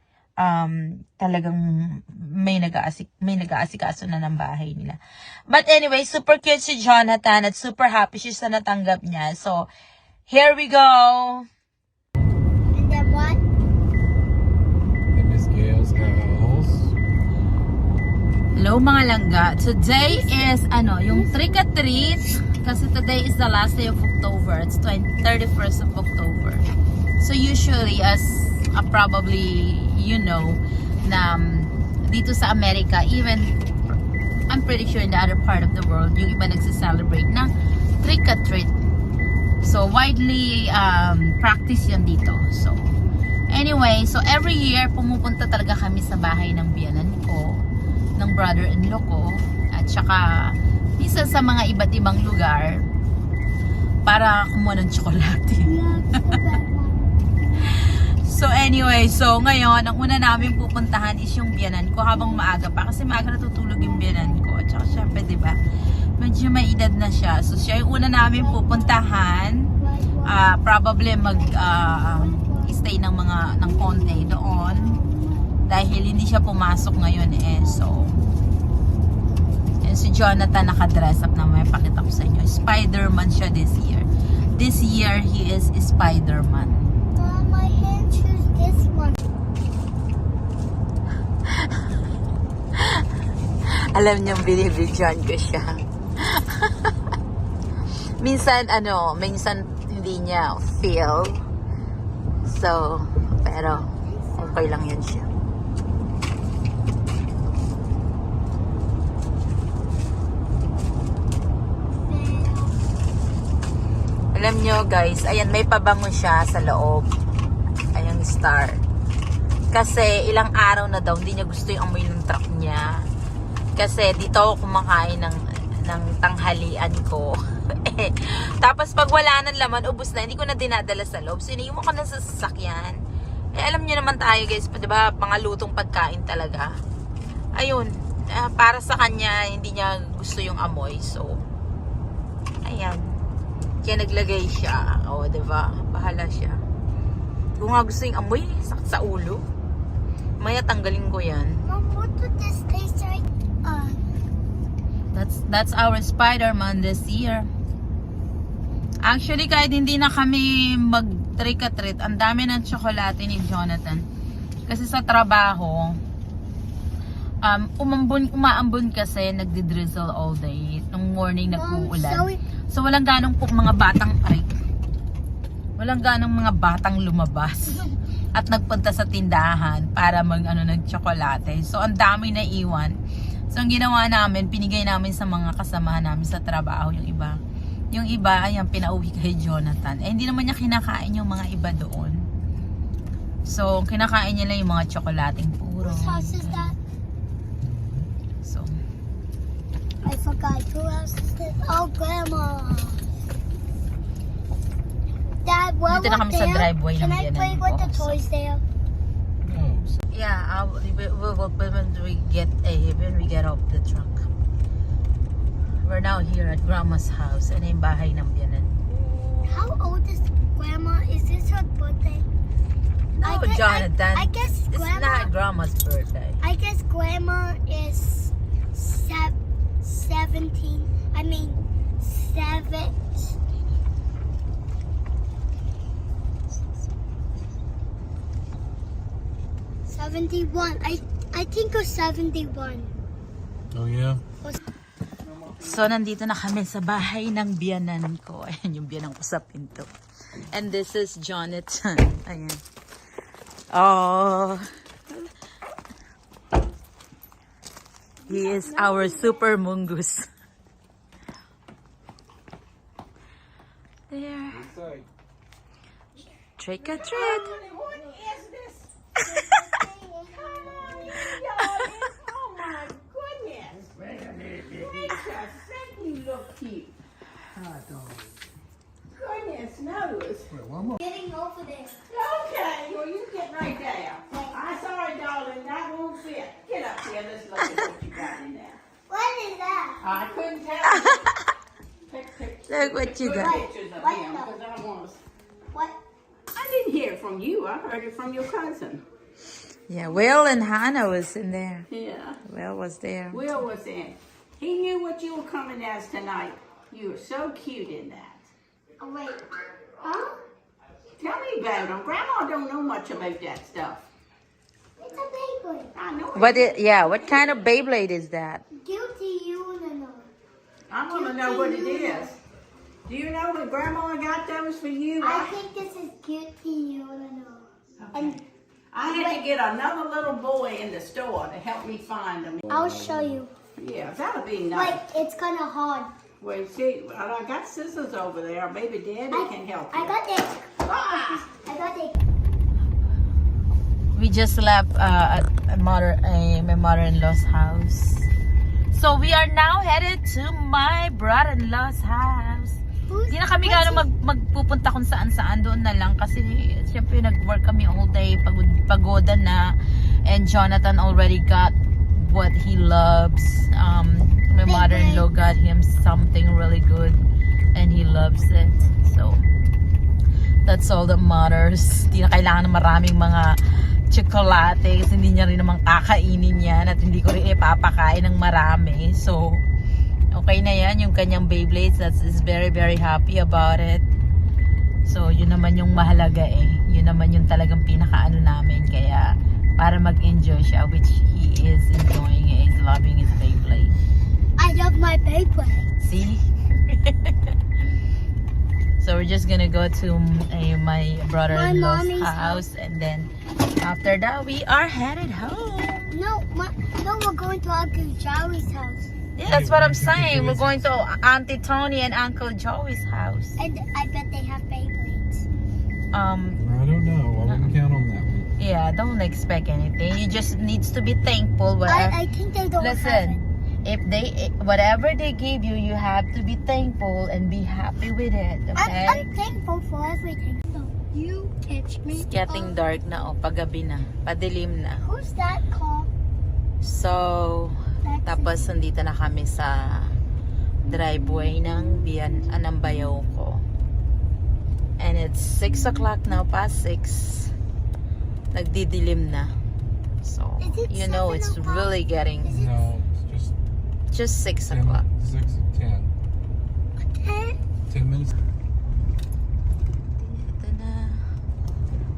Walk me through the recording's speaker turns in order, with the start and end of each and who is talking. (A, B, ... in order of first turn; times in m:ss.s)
0:00.4-0:09.7 A
0:10.3-0:11.4 A
0:12.7-0:13.4 B
0:15.1-0:16.9 C
0:18.5-0:26.7 A
0:20.1-0:20.5 B
0:21.1-0:22.2 B
0:27.2-0:33.5 A
0:34.5-0:37.5 A
0:38.0-0:38.7 A
0:39.6-0:43.0 A
0:43.5-0:47.6 A
0:48.2-0:52.8 A
0:54.1-0:56.4 A
0:55.6-0:57.8 B
0:57.8-1:05.6 A
1:02.1-1:02.4 B
1:03.8-1:04.4 B
1:06.2-1:09.7 A
1:08.4-1:09.1 B
1:09.8-1:10.5 B
1:10.2-1:15.0 A
1:11.2-1:12.8 B
1:13.6-1:15.7 B
1:15.7-1:18.1 A
1:17.6-1:18.2 B
1:19.8-1:26.9 A
1:27.2-1:29.3 B
1:33.9-1:36.9 A
1:38.2-1:41.4 A
1:42.4-1:45.3 A
1:43.4-1:44.6 B
1:51.9-1:52.8 B
1:54.3-1:57.1 A
1:57.9-1:58.8 A
1:59.7-2:02.9 A
2:03.8-2:13.0 A
2:13.6-2:16.7 A
2:17.6-2:21.4 A
2:22.6-2:23.0 A
2:23.8-2:26.6 A
2:27.6-2:29.4 A
2:30.4-2:31.6 A
2:31.7-2:34.0 B
2:35.1-2:37.5 A
2:39.0-2:44.1 A
2:44.7-2:46.0 A
2:47.4-2:54.5 A
2:51.5-2:52.4 B
2:55.8-3:03.0 A
3:03.5-3:07.4 A
3:07.9-3:12.2 A
3:13.4-3:16.8 A
3:15.8-3:16.8 B
3:18.4-3:18.7 A
3:20.0-3:23.0 B
3:25.4-3:28.6 B
3:25.9-3:28.2 A
3:29.4-3:30.0 C
3:30.1-3:34.3 A
3:35.8-3:38.8 A
3:39.4-3:42.3 B
3:43.2-3:45.3 B
3:43.2-3:46.4 A
3:46.4-3:53.4 B
3:59.9-4:03.0 B
4:03.7-4:04.2 C
4:05.6-4:09.9 A
4:10.5-4:12.6 A
4:13.7-4:14.7 A
4:18.3-4:20.3 A
4:18.3-4:19.4 B
4:24.1-4:24.7 A
4:24.6-4:25.1 C
4:26.6-4:27.6 A
4:26.8-4:28.9 D
4:29.2-4:29.5 A
4:29.3-4:31.2 B
4:30.3-4:37.0 D
4:39.1-4:40.7 D
4:41.0-4:42.0 B
4:42.1-4:48.8 D
4:44.3-4:44.6 B
4:49.1-4:50.0 B
4:50.0-4:51.2 D
4:51.0-4:51.4 A
4:52.1-4:55.2 D
4:52.7-4:53.6 A
4:53.3-4:54.5 B
4:56.5-4:59.0 D
4:59.9-5:01.9 A
5:01.9-5:02.4 D
5:02.4-5:03.4 A
5:03.3-5:08.5 D
5:09.0-5:10.4 B
5:11.2-5:14.0 D
5:15.0-5:15.9 B
5:16.0-5:16.9 D
5:16.4-5:18.6 A
5:17.1-5:17.4 B
5:18.8-5:20.3 B
5:20.9-5:22.4 D
5:21.1-5:22.4 B
5:23.1-5:25.6 D
5:25.2-5:28.4 B
5:28.0-5:32.6 D
5:29.1-5:29.4 B
5:32.7-5:33.5 B
5:33.8-5:35.0 D
5:34.7-5:36.1 B
5:36.4-5:40.2 D
5:39.3-5:42.2 B
5:40.8-5:41.5 D
5:44.2-5:48.3 A
5:48.9-5:52.8 A
5:53.1-5:54.1 B
5:53.3-6:07.2 A
6:04.6-6:05.2 B
6:07.8-6:09.4 A
6:10.7-6:13.6 A
6:14.1-6:19.6 A
6:20.3-6:24.0 A
6:25.1-6:34.0 A
6:34.6-6:35.9 B
6:36.0-6:37.3 A
6:39.0-6:46.2 A
6:41.5-6:42.6 B
6:46.1-6:49.1 B
6:49.4-6:53.6 A
6:49.5-6:50.7 C
6:53.6-6:55.4 B
6:56.1-6:56.7 A
6:56.6-6:58.5 C
6:57.5-6:57.7 A
6:58.6-7:02.2 A
7:01.9-7:03.4 B
7:02.8-7:09.2 A
7:08.8-7:12.8 B
7:12.2-7:15.0 A
7:15.0-7:16.1 B
7:16.8-7:20.2 A
7:18.0-7:18.6 B
7:20.8-7:23.6 A
7:25.0-7:27.5 A
7:28.5-7:29.5 A
7:30.2-7:32.6 A
7:30.6-7:32.9 B
7:32.6-7:33.5 C
7:34.1-7:35.1 A
7:34.7-7:36.2 C
7:37.0-7:37.6 B
7:37.9-7:38.3 C
7:40.2-7:41.2 A